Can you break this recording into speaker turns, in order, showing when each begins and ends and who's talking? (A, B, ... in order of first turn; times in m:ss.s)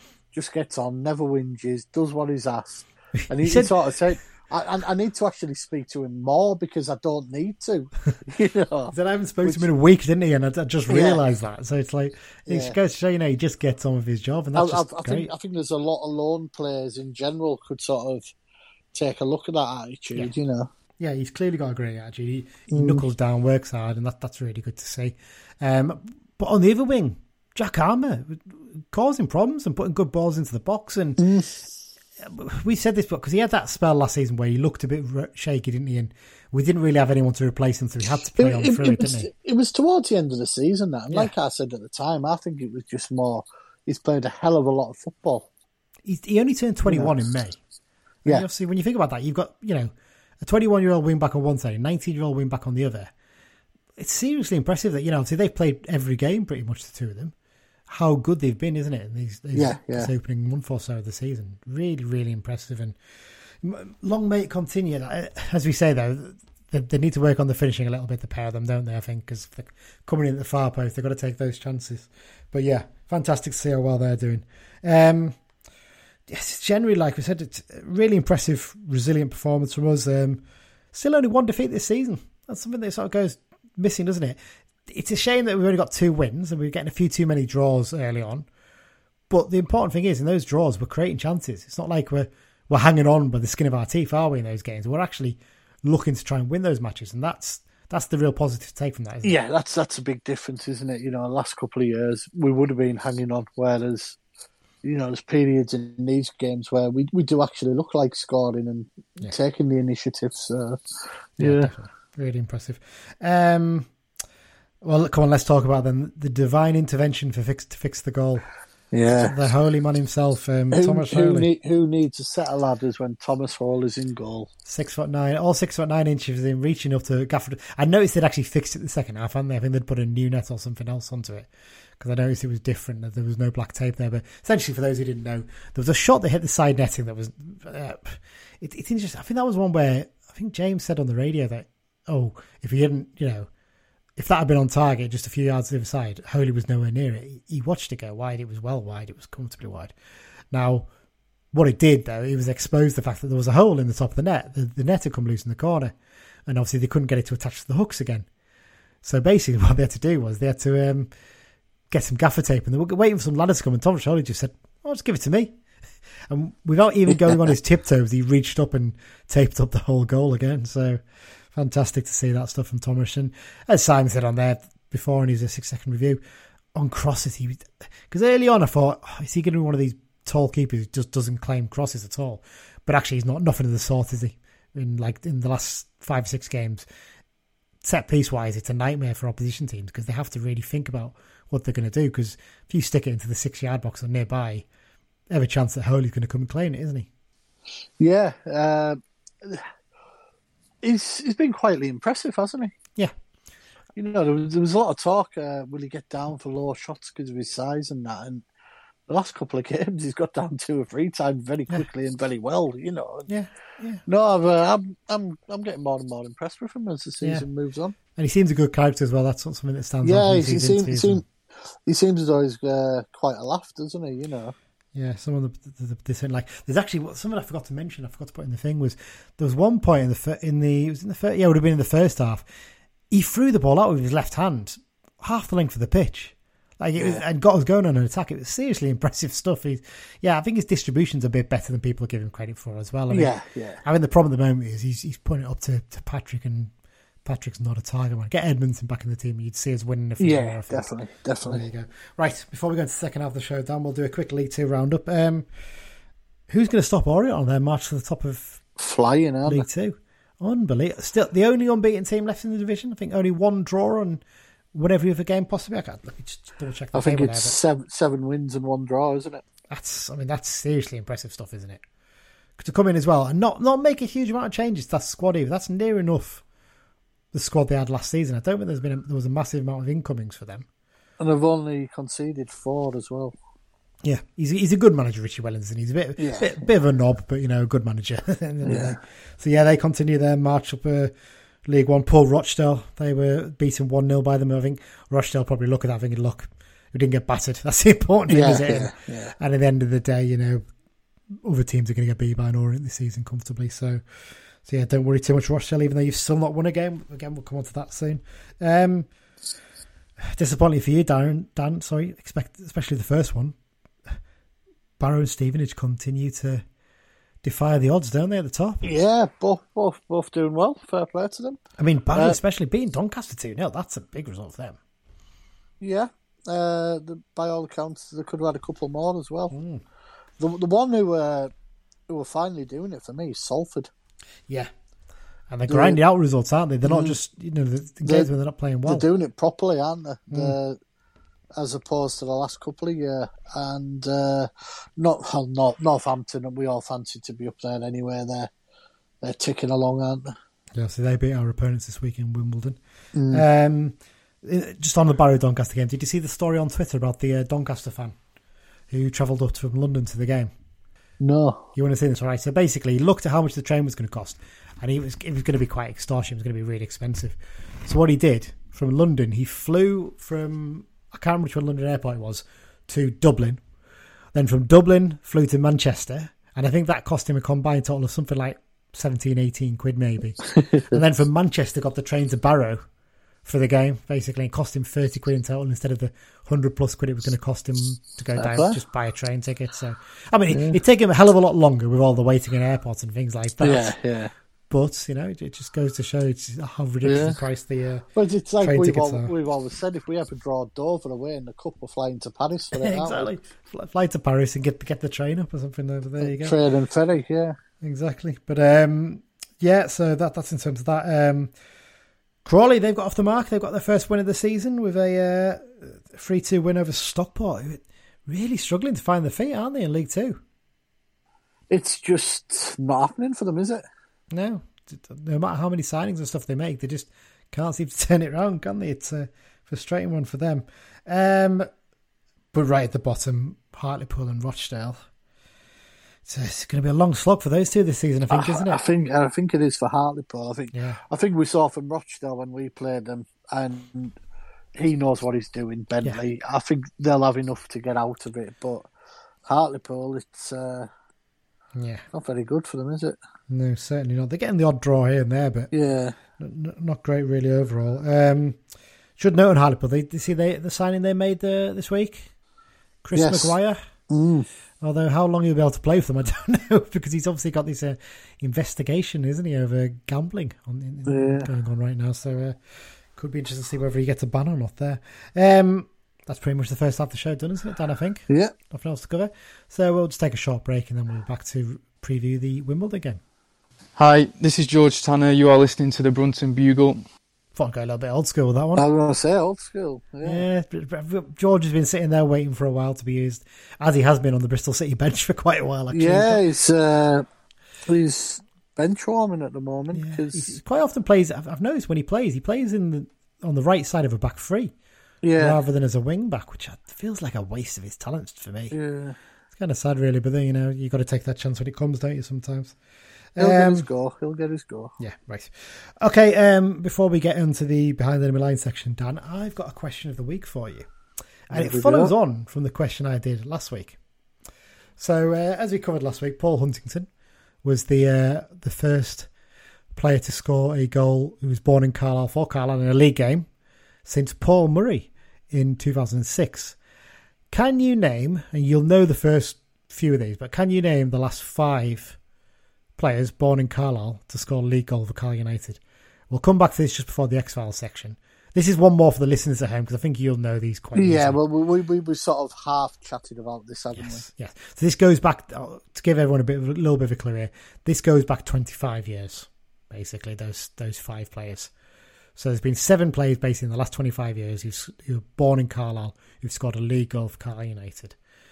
0:00.3-0:09.7 A
0:03.3-0:03.7 B
0:08.9-0:15.3 B
0:10.9-0:11.2 A
0:12.5-0:12.8 A
0:14.6-0:18.3 A
0:18.9-0:20.7 A
0:21.0-0:31.3 B
0:22.7-0:23.0 A
0:31.2-0:31.6 A
0:32.2-0:39.3 B
0:38.4-0:45.5 A
0:46.0-0:47.6 B
0:46.9-0:47.2 A
0:48.2-0:53.1 B
0:54.0-0:57.3 B
0:57.9-1:03.0 B
0:59.5-1:00.1 A
1:03.6-1:15.4 B
1:16.3-1:28.5 B
1:29.3-1:39.4 B
1:39.2-1:44.2 A
1:44.8-1:50.8 A
1:51.4-1:51.7 A
1:51.4-1:53.9 B
1:54.8-1:58.5 B
1:58.9-1:59.4 A
1:59.2-2:01.5 B
2:00.7-2:04.5 A
2:04.7-2:23.5 B
2:24.2-2:29.9 B
2:30.5-2:30.9 B
2:31.5-2:35.9 B
2:36.5-2:38.3 B
2:39.0-2:41.1 B
2:41.9-2:45.6 B
2:46.3-2:51.0 B
2:51.5-2:56.2 B
2:56.8-3:06.9 B
3:07.8-3:14.7 B
3:15.3-3:17.1 B
3:18.0-3:19.7 A
3:20.8-3:22.7 A
3:24.0-3:28.4 A
3:29.1-3:33.3 A
3:33.3-3:34.0 B
3:34.1-3:38.0 A
3:37.2-3:37.5 B
3:38.2-3:41.2 B
3:40.0-3:41.3 A
3:41.9-3:44.6 A
3:45.0-3:52.5 B
3:53.1-4:06.7 B
3:57.0-3:57.2 A
4:03.1-4:03.8 A
4:07.2-4:10.9 B
4:10.2-4:11.6 A
4:11.4-4:15.5 B
4:16.5-4:18.6 B
4:18.8-4:19.7 A
4:19.5-4:24.2 B
4:24.7-4:27.6 B
4:26.9-4:29.4 A
4:29.7-4:31.8 B
4:32.6-4:36.4 B
4:37.3-4:40.7 B
4:41.2-4:43.4 A
4:44.0-4:51.1 B
4:46.2-4:46.5 A
4:48.6-4:49.0 A
4:51.7-5:00.6 B
4:58.3-4:59.4 A
5:01.3-5:04.0 B
5:04.6-5:09.1 B
5:10.2-5:13.6 B
5:15.0-5:16.6 B
5:17.4-5:19.0 B
5:18.8-5:21.6 A
5:21.8-5:24.8 B
5:25.8-5:29.6 A
5:29.5-5:29.8 B
5:30.4-5:31.5 A
5:32.1-5:33.9 A
5:35.5-5:39.1 B
5:35.7-5:36.0 A
5:36.8-5:37.2 A
5:38.0-5:38.3 A
5:38.9-5:40.8 A
5:40.3-5:40.6 B
5:41.6-5:48.5 A
5:49.2-5:50.3 A
5:50.7-5:52.8 B
5:53.1-5:53.4 A
5:53.3-5:58.2 B
5:58.9-6:00.5 B
6:01.2-6:01.7 A
6:01.8-6:13.6 B
6:14.3-6:22.8 B
6:20.5-6:21.0 A
6:23.4-6:33.9 B
6:28.4-6:28.8 A
6:30.5-6:30.8 A
6:33.6-6:34.3 A
6:34.7-6:38.1 B
6:37.0-6:37.4 A
6:38.2-6:43.3 A
6:38.6-6:39.3 B
6:42.7-6:46.6 B
6:46.2-6:47.6 A
6:47.8-6:51.5 B
6:52.4-7:00.4 B
7:01.7-7:03.8 A
7:04.3-7:11.7 B
7:12.5-7:15.0 B
7:16.2-7:18.8 B
7:18.3-7:24.2 A
7:20.7-7:21.0 B
7:24.8-7:28.9 A
7:29.4-7:30.9 A
7:31.8-7:32.0 B
7:32.1-7:33.2 A
7:33.5-7:35.7 B
7:35.7-7:36.2 A
7:36.4-7:38.6 B
7:39.2-7:42.3 B
7:43.0-7:43.8 B
7:43.2-7:43.6 A
7:44.1-7:44.5 A
7:44.8-7:52.6 B
7:51.1-7:51.5 A
7:53.2-8:03.2 B
8:04.0-8:07.0 C
8:07.6-8:08.9 B
8:08.8-8:10.4 A
8:10.2-8:16.4 B
8:15.9-8:17.3 A
8:17.9-8:20.6 A
8:19.9-8:24.7 B
8:25.2-8:25.6 A
8:25.4-8:28.8 B
8:28.7-8:29.2 A
8:29.6-8:32.8 B
8:33.4-8:33.9 B
8:33.4-8:34.9 A
8:35.0-8:40.9 B
8:41.5-8:44.0 B
8:41.5-8:42.1 A
8:45.0-8:47.1 B
8:47.6-8:49.3 B
8:50.0-8:53.5 B
8:54.0-8:56.8 B
8:57.5-9:02.2 B
9:03.0-9:11.4 B
9:11.0-9:14.2 A
9:14.0-9:21.7 B
9:22.4-9:28.2 B